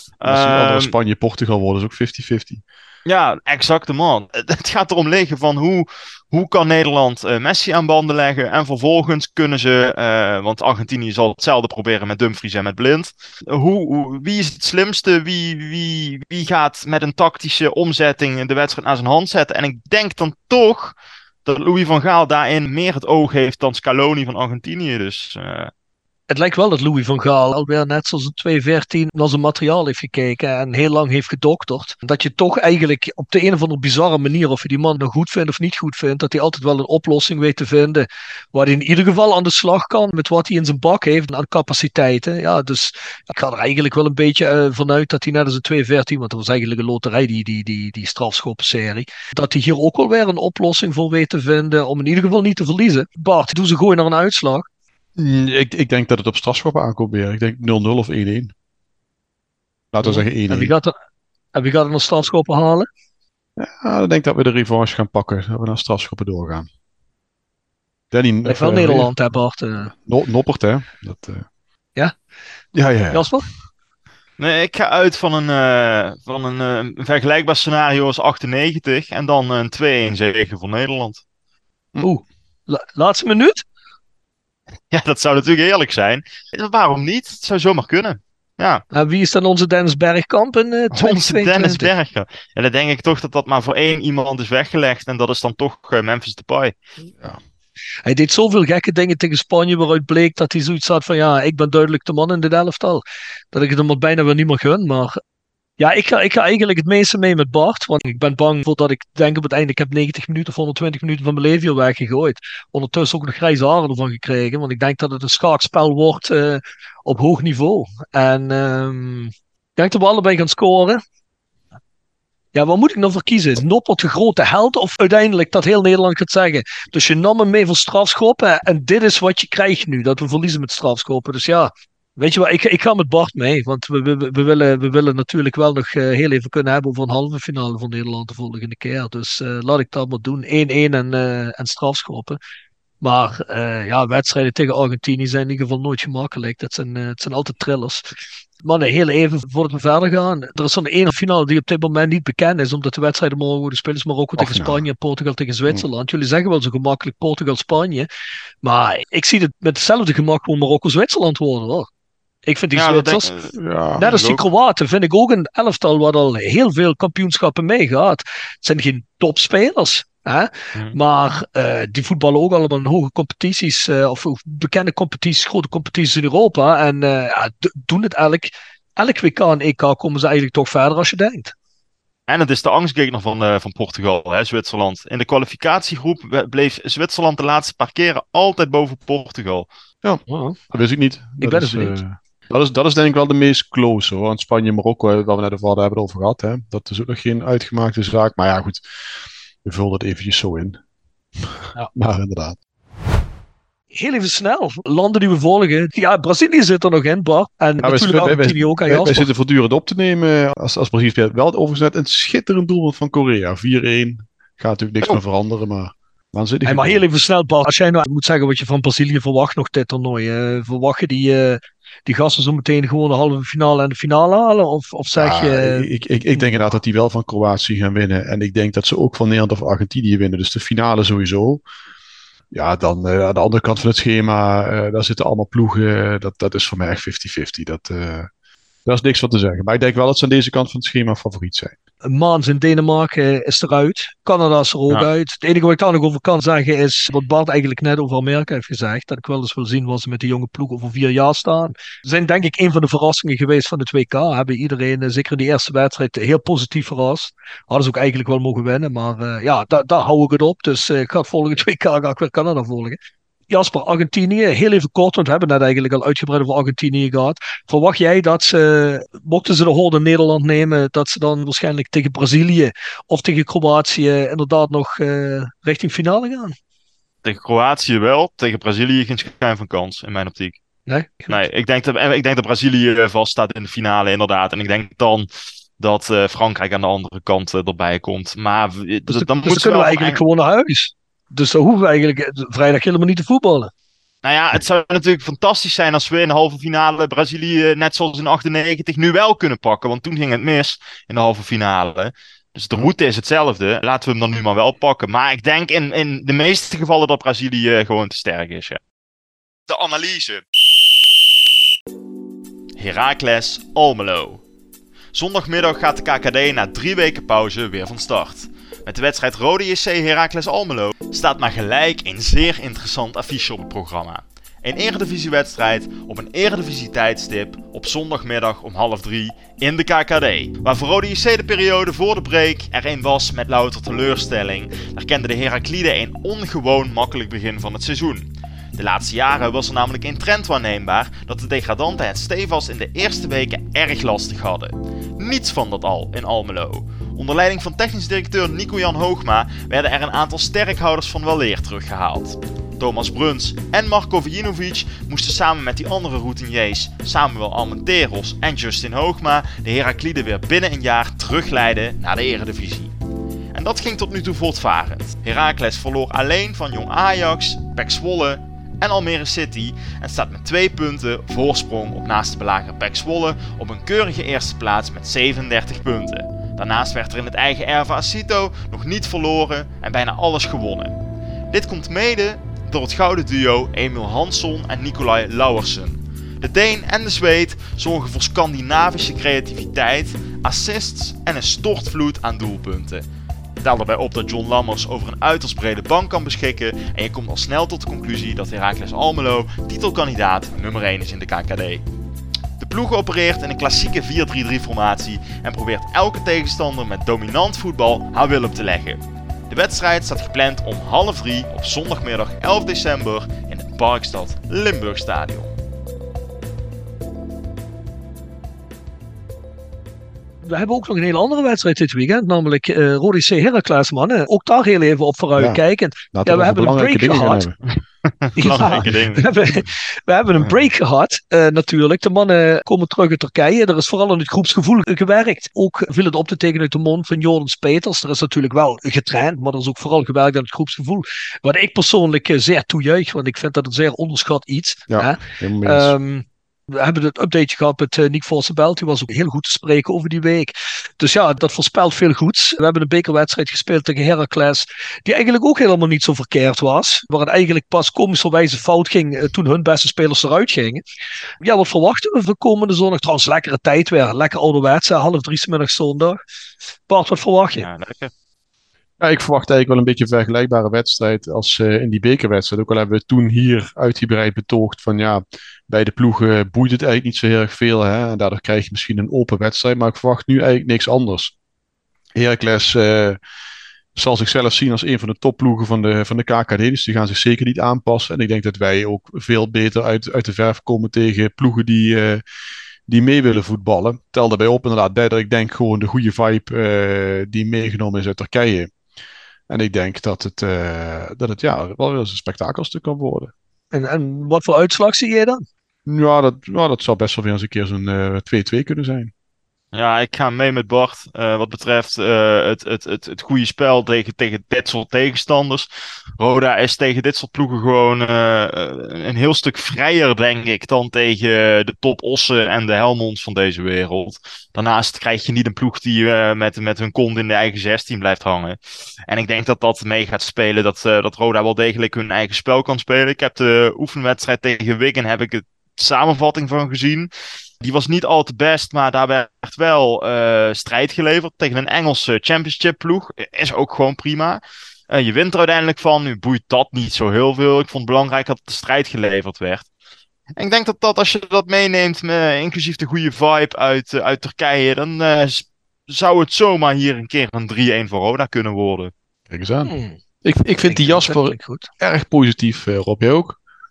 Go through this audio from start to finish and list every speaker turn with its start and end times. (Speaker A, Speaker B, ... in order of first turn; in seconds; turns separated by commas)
Speaker A: 0.2-0.9, Speaker B: 0.2-2.6, Speaker A: 3.0-25.7, Speaker C: 26.3-54.6, Speaker B: 55.2-58.5, Speaker B: 59.9-60.7, Speaker C: 60.0-60.9, Speaker C: 61.5-62.9, Speaker B: 63.6-66.7, Speaker B: 68.1-69.1, Speaker C: 68.5-69.9, Speaker B: 70.0-71.5, Speaker B: 72.7-73.5, Speaker C: 73.1-73.4, Speaker A: 74.4-81.2, Speaker C: 82.0-83.6, Speaker A: 84.9-88.8, Speaker C: 88.9-91.9, Speaker A: 90.9-96.7, Speaker C: 98.0-105.2, Speaker C: 105.8-121.0, Speaker C: 122.5-142.4, Speaker C: 143.0-148.1, Speaker C: 148.6-158.1, Speaker B: 154.4-154.8, Speaker C: 158.6-161.9, Speaker C: 162.4-163.3, Speaker A: 162.7-163.5, Speaker B: 163.5-164.4, Speaker C: 164.0-181.5, Speaker A: 182.3-189.7, Speaker B: 190.0-198.8, Speaker C: 190.3-190.6, Speaker C: 191.4-192.0, Speaker B: 199.6-200.8, Speaker B: 201.4-202.6, Speaker C: 203.9-209.3, Speaker B: 207.8-217.0, Speaker C: 216.6-226.5, Speaker B: 225.2-231.6, Speaker B: 232.5-238.3, Speaker B: 238.8-241.7, Speaker C: 242.0-263.0, Speaker C: 263.5-276.5, Speaker A: 277.2-280.6, Speaker C: 280.9-281.4, Speaker A: 281.3-285.3, Speaker A: 285.8-290.2, Speaker C: 289.1-293.7, Speaker A: 294.2-308.8, Speaker A: 309.7-310.4, Speaker A: 312.8-314.4, Speaker A: 315.1-362.9, Speaker A: 363.5-381.0, Speaker A: 381.5-393.0, Speaker A: 393.6-401.8, Speaker A: 402.6-415.6, Speaker C: 420.4-427.4, Speaker B: 425.4-427.6, Speaker A: 428.2-429.4, Speaker C: 428.4-460.8, Speaker B: 444.9-445.9, Speaker C: 461.4-466.2, Speaker C: 466.9-467.7, Speaker A: 467.6-468.1, Speaker B: 469.0-481.3, Speaker B: 482.1-483.2, Speaker B: 483.9-492.2, Speaker B: 492.9-498.7, Speaker B: 499.5-503.3, Speaker C: 503.7-505.4, Speaker B: 505.9-509.1, Speaker A: 509.7-515.7, Speaker A: 516.2-537.1, Speaker A: 537.6-549.7, Speaker A: 550.4-558.9, Speaker B: 559.3-563.4, Speaker C: 559.6-560.0, Speaker C: 560.6-561.7